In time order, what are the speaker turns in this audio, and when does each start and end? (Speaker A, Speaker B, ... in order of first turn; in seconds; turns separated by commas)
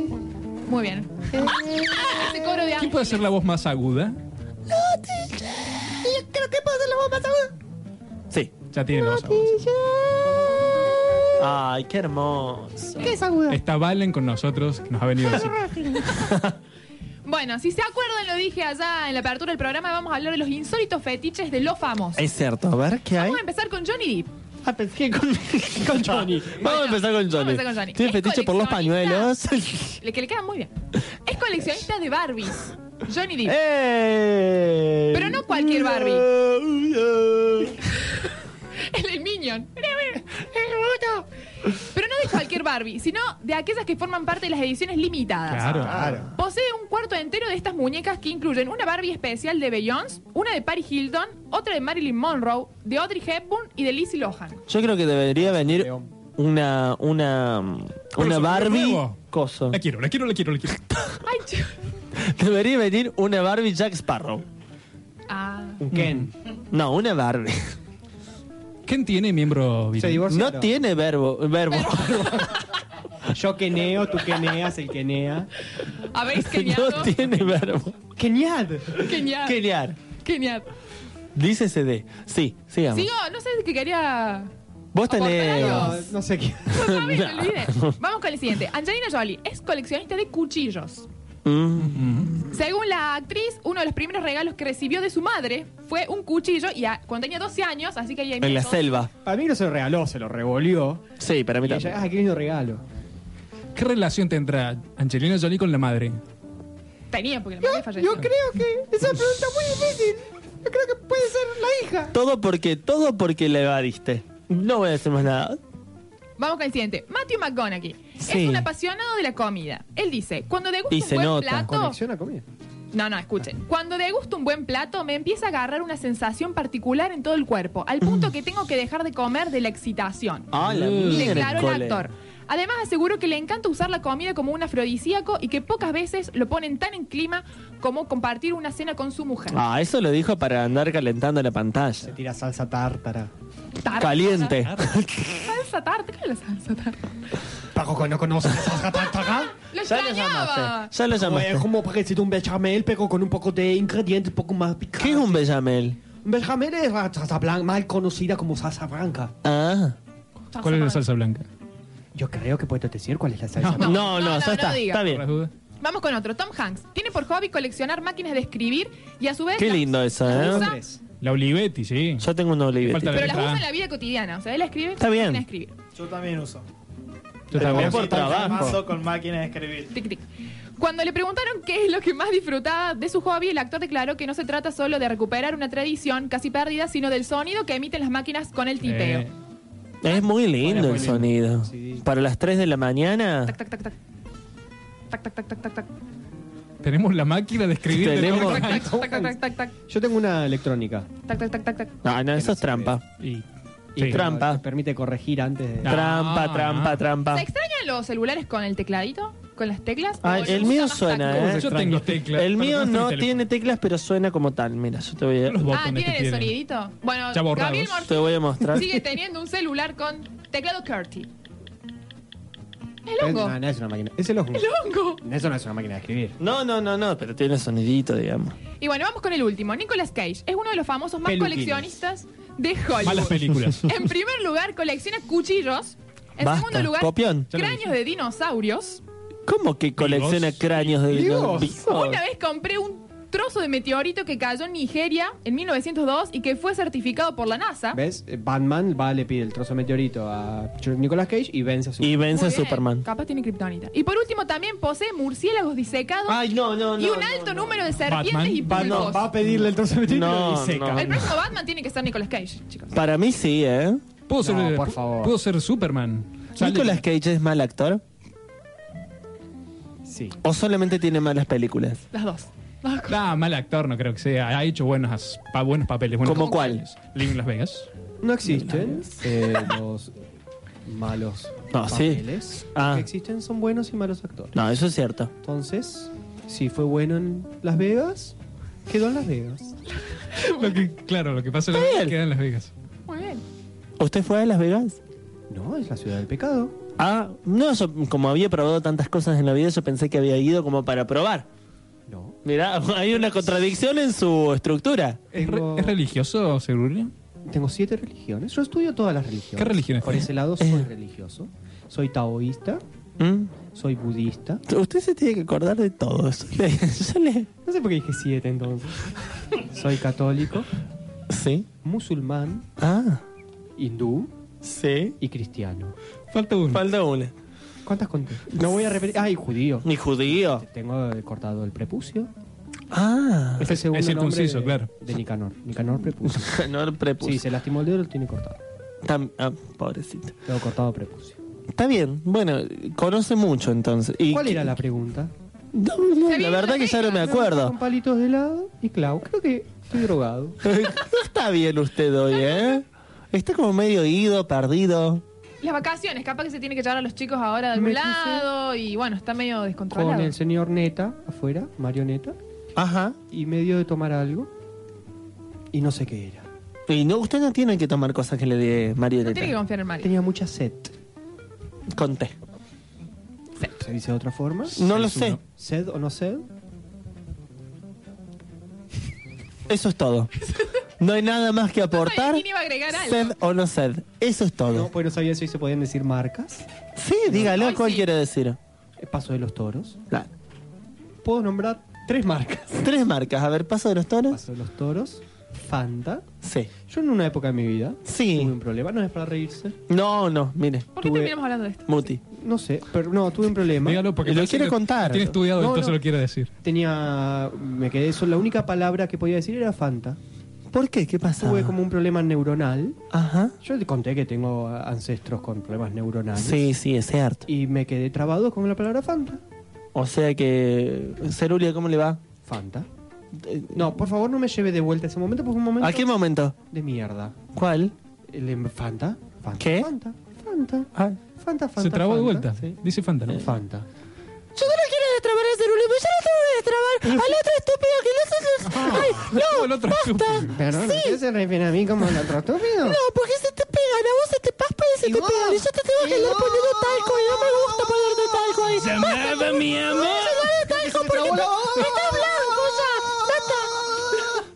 Speaker A: 0.7-3.2, Speaker B: 1.4-2.1, Speaker C: 2.8-4.2, Speaker B: 4.7-5.6, Speaker D: 6.0-7.5, Speaker C: 8.7-9.6, Speaker D: 9.0-10.6, Speaker B: 11.4-13.1, Speaker D: 13.0-13.6, Speaker C: 13.5-15.9, Speaker B: 16.0-16.6, Speaker A: 17.2-22.2, Speaker B: 22.2-23.4, Speaker A: 23.2-24.3, Speaker B: 24.6-30.0, Speaker D: 25.8-26.8, Speaker A: 26.6-29.3, Speaker A: 30.0-30.7, Speaker A: 31.2-33.6, Speaker B: 33.5-37.8, Speaker A: 35.1-36.3, Speaker A: 38.0-54.6, Speaker C: 45.5-46.2, Speaker D: 45.8-46.3, Speaker B: 45.9-46.3, Speaker B: 54.7-59.8, Speaker D: 55.3-56.1, Speaker C: 58.2-59.2, Speaker C: 59.7-60.9, Speaker A: 61.2-61.8, Speaker B: 62.1-64.5, Speaker A: 65.3-65.8, Speaker D: 65.8-66.3, Speaker B: 66.7-67.8, Speaker C: 68.9-70.2, Speaker D: 70.0-70.7, Speaker B: 70.3-72.7, Speaker A: 71.7-72.6, Speaker D: 73.2-75.5, Speaker A: 75.8-77.2, Speaker B: 76.3-78.0, Speaker D: 78.1-79.0, Speaker A: 79.0-80.7, Speaker B: 79.1-80.0, Speaker B: 81.3-83.1, Speaker A: 82.9-84.5, Speaker B: 84.9-86.0, Speaker A: 85.1-86.1, Speaker D: 85.5-86.8, Speaker A: 86.7-91.1, Speaker B: 86.8-88.0, Speaker B: 91.5-92.5, Speaker C: 91.9-92.3, Speaker A: 92.4-99.0, Speaker B: 98.4-99.1, Speaker D: 99.2-101.0, Speaker B: 101.2-102.0, Speaker D: 101.6-102.8, Speaker C: 103.8-106.2, Speaker A: 107.1-108.3, Speaker D: 107.6-112.1, Speaker B: 112.1-115.6, Speaker A: 116.4-122.0, Speaker B: 118.2-118.7, Speaker B: 120.9-121.7, Speaker D: 121.7-122.4, Speaker A: 122.9-139.6, Speaker B: 128.0-128.3, Speaker B: 130.5-132.1, Speaker C: 130.7-131.1, Speaker E: 131.2-131.5, Speaker B: 139.5-142.1, Speaker D: 142.0-143.3, Speaker A: 143.8-144.7, Speaker B: 144.0-145.5, Speaker A: 145.4-147.0, Speaker D: 147.7-149.5, Speaker A: 149.0-150.9, Speaker B: 149.8-151.7, Speaker D: 151.1-155.5, Speaker B: 155.0-156.0, Speaker D: 156.2-159.3, Speaker B: 159.4-160.0, Speaker A: 160.5-161.0, Speaker C: 160.6-161.5, Speaker D: 162.1-164.1, Speaker C: 163.6-163.9, Speaker A: 163.8-165.0, Speaker B: 163.8-165.2, Speaker C: 165.0-165.5, Speaker A: 165.8-170.8, Speaker B: 169.6-170.7, Speaker D: 170.2-171.0, Speaker C: 171.2-172.2, Speaker B: 172.2-173.4, Speaker C: 172.8-173.7, Speaker A: 173.1-175.8, Speaker B: 175.0-175.4, Speaker E: 176.0-176.7, Speaker C: 177.5-178.1, Speaker B: 177.5-178.9, Speaker E: 177.5-179.9, Speaker D: 177.7-178.8, Speaker A: 179.9-180.2, Speaker A: 180.8-189.3, Speaker C: 188.8-189.3, Speaker B: 190.0-193.5, Speaker D: 190.6-192.1, Speaker A: 193.5-194.0, Speaker A: 195.1-195.9, Speaker C: 196.8-198.9, Speaker B: 197.9-198.7, Speaker A: 198.3-199.7, Speaker D: 198.5-199.3, Speaker D: 199.9-201.1, Speaker A: 201.2-202.0, Speaker B: 202.0-203.0, Speaker D: 202.3-203.0, Speaker C: 203.2-203.4, Speaker D: 204.0-206.0, Speaker C: 204.0-204.2, Speaker B: 204.1-204.6, Speaker C: 205.8-207.0, Speaker B: 205.8-207.5, Speaker A: 207.3-211.8, Speaker B: 210.2-215.7, Speaker C: 211.3-213.4, Speaker C: 215.5-216.5, Speaker A: 215.7-221.3, Speaker C: 217.3-218.0, Speaker B: 218.0-218.9, Speaker A: 223.1-223.6, Speaker D: 223.2-224.7, Speaker A: 224.5-225.2, Speaker D: 225.2-226.4, Speaker B: 226.4-228.6, Speaker A: 228.8-239.0, Speaker D: 231.2-231.9, Speaker C: 233.0-233.8, Speaker B: 236.4-237.5, Speaker C: 237.5-237.9, Speaker B: 239.5-242.2, Speaker C: 240.0-240.9, Speaker D: 241.1-241.8, Speaker A: 241.7-248.0, Speaker D: 247.9-252.3, Speaker B: 252.0-253.1, Speaker A: 252.3-256.4, Speaker B: 256.3-257.9, Speaker A: 256.9-259.3, Speaker C: 258.1-258.9, Speaker D: 258.6-261.4, Speaker B: 258.8-259.3, Speaker B: 260.1-261.2, Speaker A: 260.9-262.9, Speaker B: 262.9-264.0, Speaker C: 264.3-267.0, Speaker D: 264.4-265.3, Speaker B: 266.6-268.0, Speaker D: 270.0-270.4, Speaker B: 270.4-272.0, Speaker A: 272.1-273.2, Speaker C: 273.1-277.9, Speaker B: 276.2-276.8, Speaker D: 278.2-280.1, Speaker B: 278.4-279.6, Speaker D: 280.8-284.6, Speaker B: 281.7-283.1, Speaker B: 284.5-285.3, Speaker D: 285.4-288.4, Speaker D: 288.9-289.7, Speaker A: 290.1-290.9, Speaker C: 290.4-292.7, Speaker B: 291.7-292.2, Speaker A: 293.1-293.4, Speaker B: 294.0-295.0, Speaker D: 295.5-296.7, Speaker B: 297.0-301.4, Speaker D: 302.1-302.4, Speaker B: 302.4-305.2, Speaker D: 303.1-303.6, Speaker C: 305.3-307.1, Speaker D: 305.3-306.0, Speaker D: 307.4-312.8, Speaker C: 309.6-310.3, Speaker B: 310.6-310.9, Speaker B: 313.2-313.5, Speaker D: 313.7-314.6, Speaker B: 314.7-317.5, Speaker D: 317.6-320.7, Speaker B: 321.3-321.7, Speaker D: 321.8-322.6, Speaker B: 322.8-323.2, Speaker D: 323.8-324.3, Speaker B: 324.6-325.1, Speaker D: 325.2-325.9, Speaker C: 326.3-326.8, Speaker B: 326.7-327.3, Speaker D: 327.8-332.3, Speaker B: 329.8-330.6, Speaker B: 332.9-333.8, Speaker D: 333.6-336.6, Speaker C: 333.6-334.9, Speaker B: 336.3-337.4, Speaker D: 337.2-338.6, Speaker B: 339.0-340.4, Speaker D: 340.4-341.4, Speaker B: 341.7-344.7, Speaker D: 344.3-345.3, Speaker B: 345.7-347.8, Speaker A: 346.2-347.4, Speaker D: 347.2-350.6, Speaker B: 350.6-355.2, Speaker A: 352.3-352.8, Speaker A: 355.6-360.3, Speaker D: 357.7-358.5, Speaker D: 359.9-362.4, Speaker B: 362.8-363.2, Speaker D: 363.3-364.5, Speaker D: 365.7-366.4, Speaker B: 366.9-369.6, Speaker A: 369.2-370.1, Speaker D: 370.0-370.9, Speaker B: 371.9-372.3, Speaker D: 373.8-374.8, Speaker C: 374.7-375.4, Speaker B: 374.8-375.4, Speaker D: 375.4-376.4, Speaker B: 379.7-380.3, Speaker A: 380.4-380.7, Speaker B: 381.0-384.9, Speaker A: 381.9-383.3, Speaker D: 384.7-386.7, Speaker B: 386.9-388.6, Speaker D: 387.3-387.6, Speaker A: 387.5-388.1, Speaker D: 389.0-390.0, Speaker D: 391.2-392.8, Speaker B: 392.7-394.4, Speaker D: 394.3-396.2, Speaker B: 396.4-396.7, Speaker D: 396.9-399.7, Speaker B: 398.0-398.5, Speaker B: 399.9-400.9, Speaker A: 400.9-402.1, Speaker D: 401.0-401.4, Speaker B: 401.9-402.2, Speaker D: 402.4-404.1, Speaker C: 403.8-406.5, Speaker B: 404.2-405.4, Speaker D: 405.6-406.0, Speaker D: 406.6-410.2, Speaker B: 410.7-411.8, Speaker D: 411.4-413.0, Speaker B: 413.1-413.5, Speaker D: 413.6-416.7, Speaker B: 416.4-417.4, Speaker D: 417.5-419.4, Speaker B: 419.9-422.2, Speaker D: 422.4-422.9, Speaker B: 423.3-423.9, Speaker D: 423.7-426.1, Speaker B: 425.8-426.5, Speaker D: 426.6-427.4, Speaker B: 427.5-427.9, Speaker D: 428.3-432.5, Speaker B: 429.6-429.9, Speaker C: 431.8-433.4, Speaker D: 433.4-433.9, Speaker B: 434.5-441.2, Speaker C: 438.6-440.5, Speaker D: 440.4-443.0, Speaker B: 442.8-453.7, Speaker D: 445.0-446.9, Speaker C: 448.8-450.4, Speaker A: 449.9-450.3, Speaker D: 450.6-452.3, Speaker A: 451.3-452.3